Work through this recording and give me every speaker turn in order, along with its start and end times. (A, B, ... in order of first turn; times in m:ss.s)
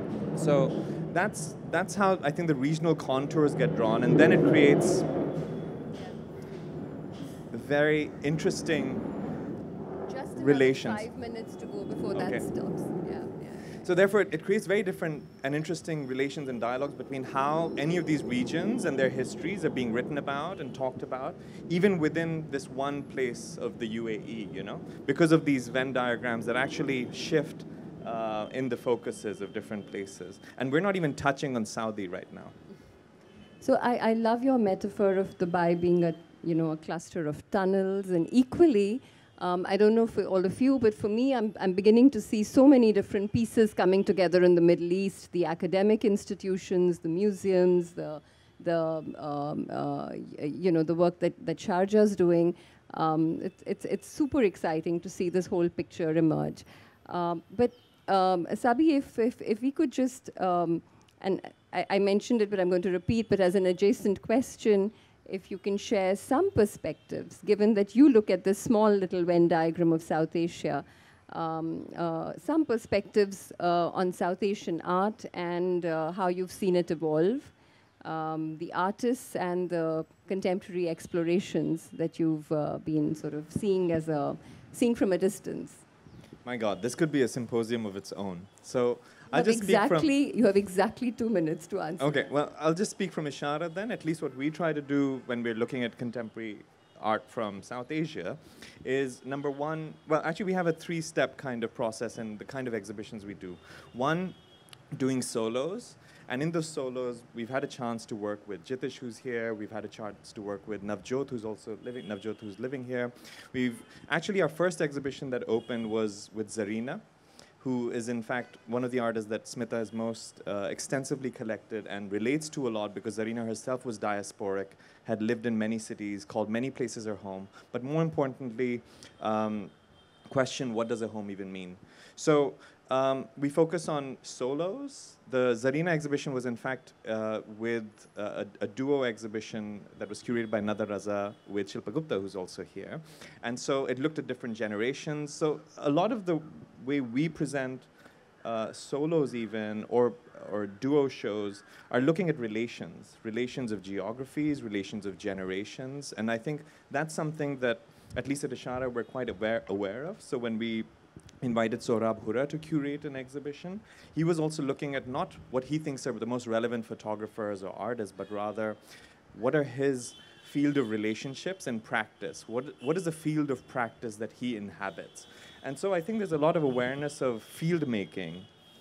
0:00.4-0:05.1 A
0:07.5-0:09.0 A
0:10.1-0:13.8 B
0:10.4-0:11.1 A
0:12.1-0:12.5 A
0:13.8-0:32.6 A
0:33.6-1:25.8 B
1:26.4-1:30.1 A
1:29.3-1:32.2 B
1:32.0-1:44.4 A
1:44.9-1:57.0 A
1:57.6-2:09.7 A
2:10.3-2:27.9 A
2:28.4-2:40.9 A
2:41.4-2:48.8 A
2:49.3-2:58.5 A